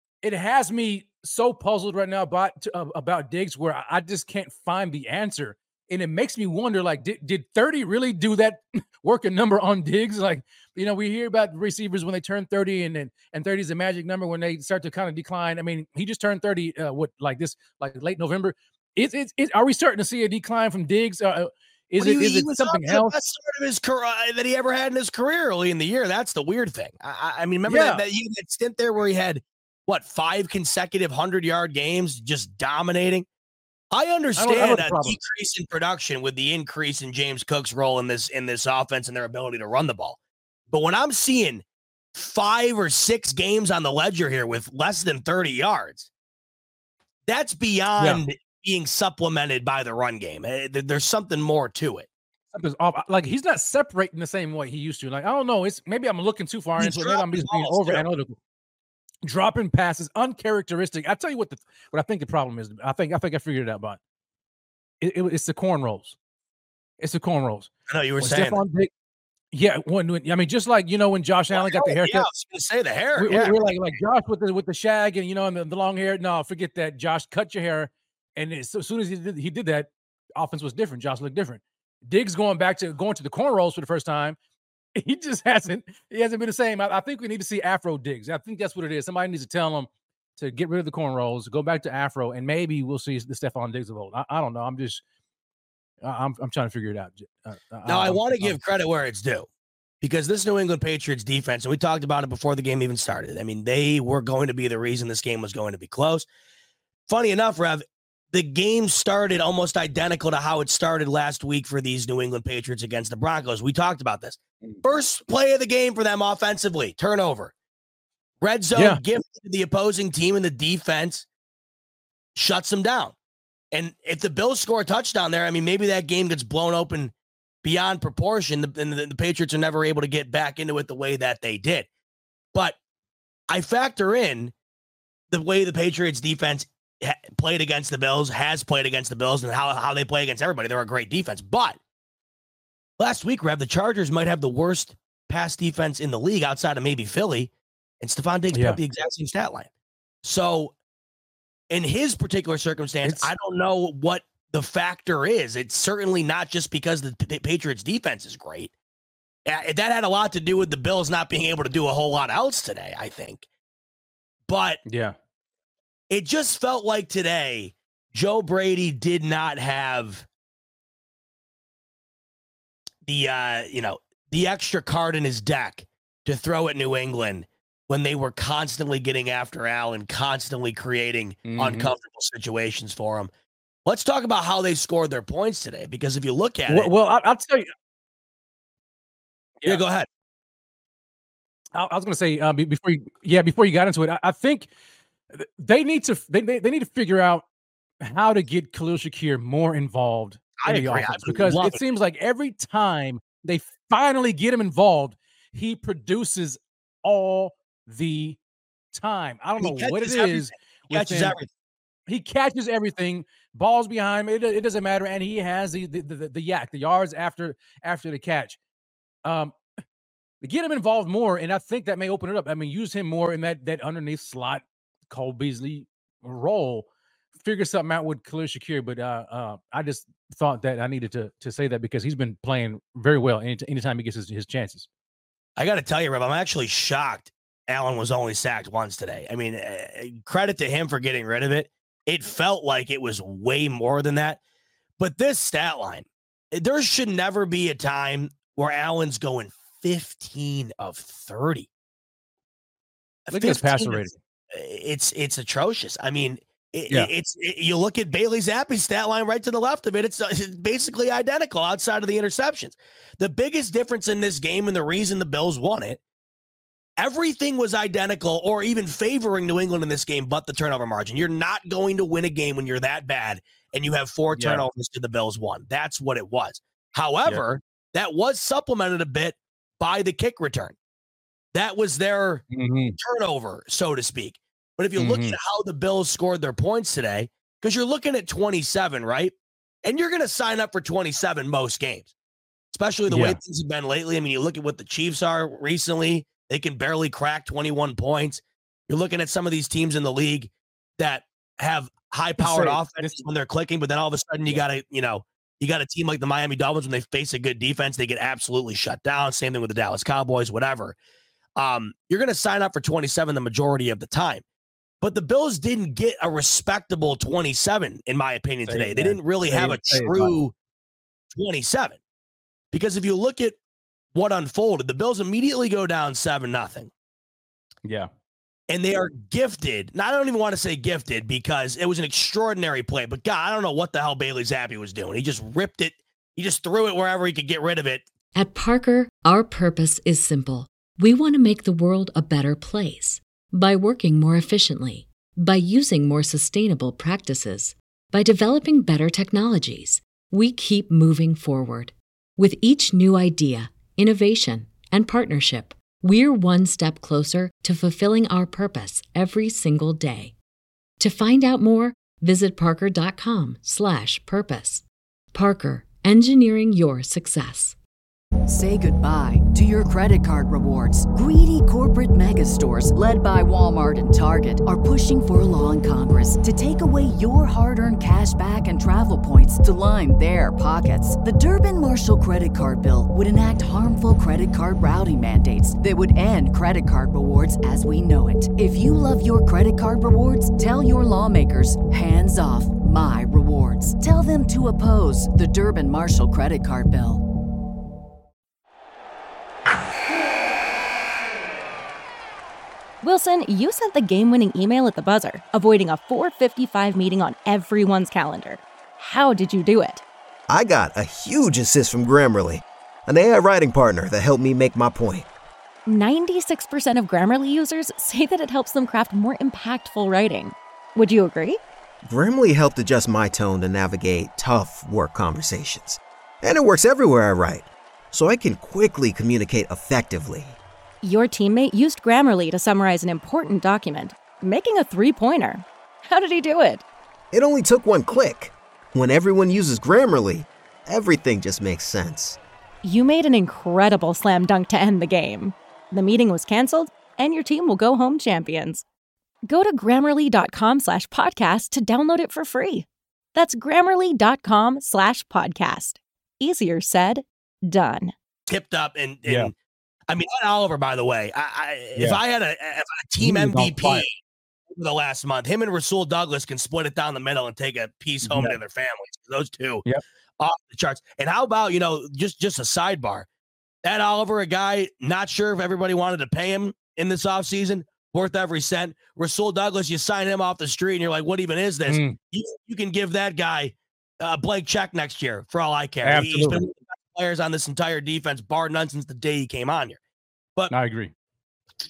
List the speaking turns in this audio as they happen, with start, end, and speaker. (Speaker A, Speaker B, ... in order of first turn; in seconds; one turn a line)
Speaker A: 0.2-23.1
Speaker B: 22.0-33.3
Speaker A: 27.6-28.0
Speaker B: 33.9-40.2
Speaker A: 34.4-35.2
Speaker B: 40.7-46.1
Speaker B: 47.3-52.1
Speaker A: 52.5-58.4
Speaker B: 56.8-58.0
Speaker A: 59.2-64.0
Speaker A: 65.0-66.2
Speaker A: 67.0-68.9
Speaker B: 67.9-68.6
Speaker A: 69.5-72.3
Speaker B: 71.5-74.0
Speaker A: 73.2-84.4
Speaker A: 85.0-95.0
Speaker A: 96.0-98.6
Speaker B: 97.8-99.5
Speaker B: 100.0-106.3
Speaker B: 107.1-117.5
Speaker B: 118.4-121.3
Speaker A: 118.7-119.0
Speaker B: 122.3-123.2
Speaker B: 123.7-131.9
Speaker B: 133.5-134.5
Speaker B: 135.3-141.8
Speaker B: 143.0-149.7
Speaker A: 148.5-148.8
Speaker B: 150.2-150.8
Speaker B: 151.7-158.7
Speaker A: 153.0-153.3
Speaker B: 159.4-163.4
Speaker B: 164.5-164.8
Speaker A: 164.8-165.2
Speaker B: 166.1-170.3
Speaker B: 173.0-183.3
Speaker A: 181.4-181.9
Speaker B: 183.8-186.9
Speaker A: 186.7-187.7
Speaker B: 189.6-190.1
Speaker A: 191.7-194.7
Speaker A: 195.3-197.4
Speaker A: 198.0-208.4
Speaker B: 200.6-201.8
Speaker A: 208.9-211.4
Speaker B: 209.6-211.5
Speaker A: 212.1-218.6
Speaker A: 219.2-219.6
Speaker A: 220.4-234.9
Speaker B: 235.6-244.4
Speaker B: 245.0-251.7
Speaker B: 253.3-266.0
Speaker A: 253.3-254.1
Speaker B: 267.0-280.8
Speaker A: 274.4-274.6
Speaker B: 281.5-282.4
Speaker A: 282.5-283.0
Speaker B: 283.0-292.1
Speaker A: 285.0-285.4
Speaker B: 292.7-310.9
Speaker A: 293.1-293.4
Speaker A: 302.4-303.2
Speaker B: 311.6-314.4
Speaker B: 315.0-320.5
Speaker A: 318.7-320.3
Speaker B: 321.3-322.0
Speaker B: 322.7-323.6
Speaker B: 324.1-326.9
Speaker A: 327.8-328.1
Speaker B: 328.7-338.1
Speaker C: 338.3-360.4
Speaker C: 361.0-367.8
Speaker D: 368.4-397.2
Speaker E: 403.0-410.0
Speaker F: 410.5-415.3
Speaker E: 415.9-421.6
Speaker F: 422.0-430.6
Speaker E: 431.0-436.8
Speaker F: 437.3-442.4
Speaker E: 442.8-448.8
Speaker E: 449.5-458.1
Speaker B: 458.5-459.5
Speaker A: 459.2-459.5
Speaker B: 460.1-464.1
Speaker A: 461.9-462.2
Speaker A: 463.2-464.1
Speaker B: 464.7-469.8
Speaker A: 468.2-468.6
Speaker B: 470.4-473.3
Speaker B: 473.8-490.0
Speaker A: 481.9-482.2
Speaker A: 486.0-486.6
Speaker A: 490.7-491.1